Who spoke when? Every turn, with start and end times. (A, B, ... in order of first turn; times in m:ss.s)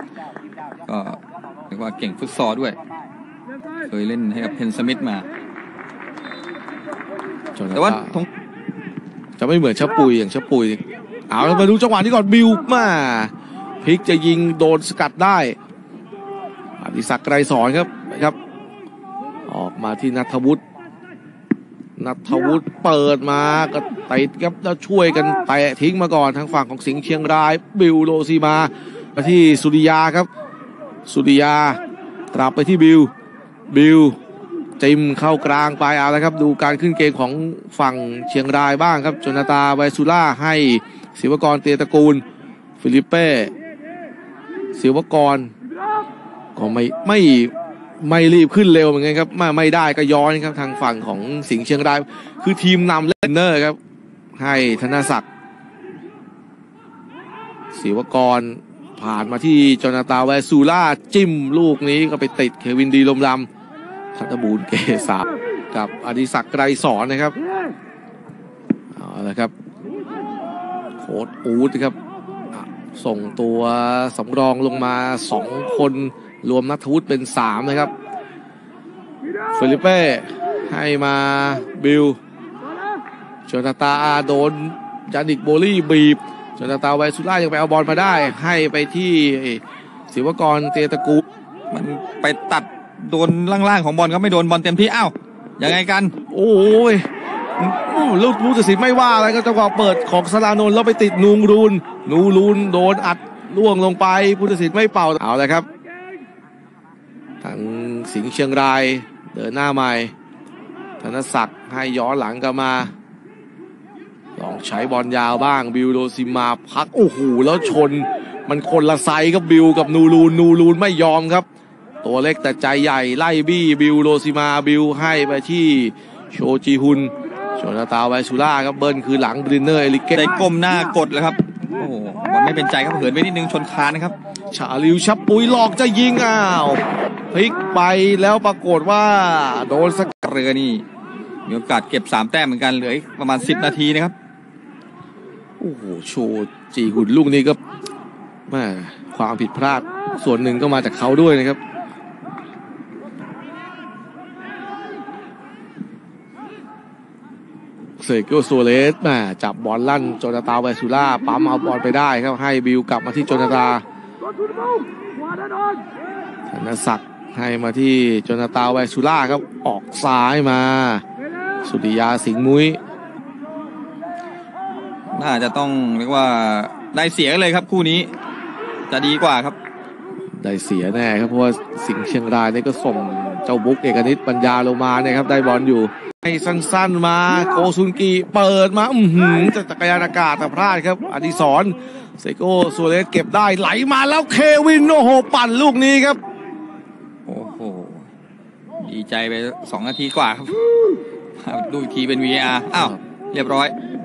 0:00.9-0:01.2 A
0:01.7-0:02.8 A
0:03.9-0:05.3 A
0:07.6-0:08.2 B
0:07.7-0:08.3 A
0:09.4-0:15.6 B
0:16.8-0:18.4 B
0:19.4-0:20.6 B
0:22.0-0:30.3 B
0:31.1-0:31.8 B
0:32.3-0:33.1 B
0:33.7-0:34.2 B
0:34.8-0:42.2 B
0:42.8-0:43.5 B
0:44.8-0:45.5 B
0:46.6-0:53.8 B
0:54.4-0:55.2 B
0:57.7-1:03.5 B
1:04.1-1:07.4 B
1:08.9-1:09.5 B
1:11.0-1:12.0 B
1:12.5-1:17.9 B
1:19.5-1:22.2 B
1:23.5-1:31.2 B
1:31.7-1:36.1 A
1:36.3-1:37.1 B
1:37.6-1:45.7 B
1:47.4-1:50.1 B
1:51.0-1:52.9 B
1:54.4-2:01.5 B
2:02.0-2:10.4 B
2:10.1-2:14.2 A
2:14.5-2:20.2 B
2:20.2-2:20.8 A
2:21.5-2:24.1 A
2:25.6-2:27.6 B
2:28.5-2:31.6 B
2:38.0-2:43.8 B
2:46.5-2:51.0 B
2:51.6-2:52.8 B
2:55.1-2:58.1 A
2:58.9-2:59.6 A
3:00.4-3:16.2 B
3:17.3-3:18.1 A
3:18.8-3:20.6 A
3:21.4-3:23.7 A
3:22.7-3:23.0 B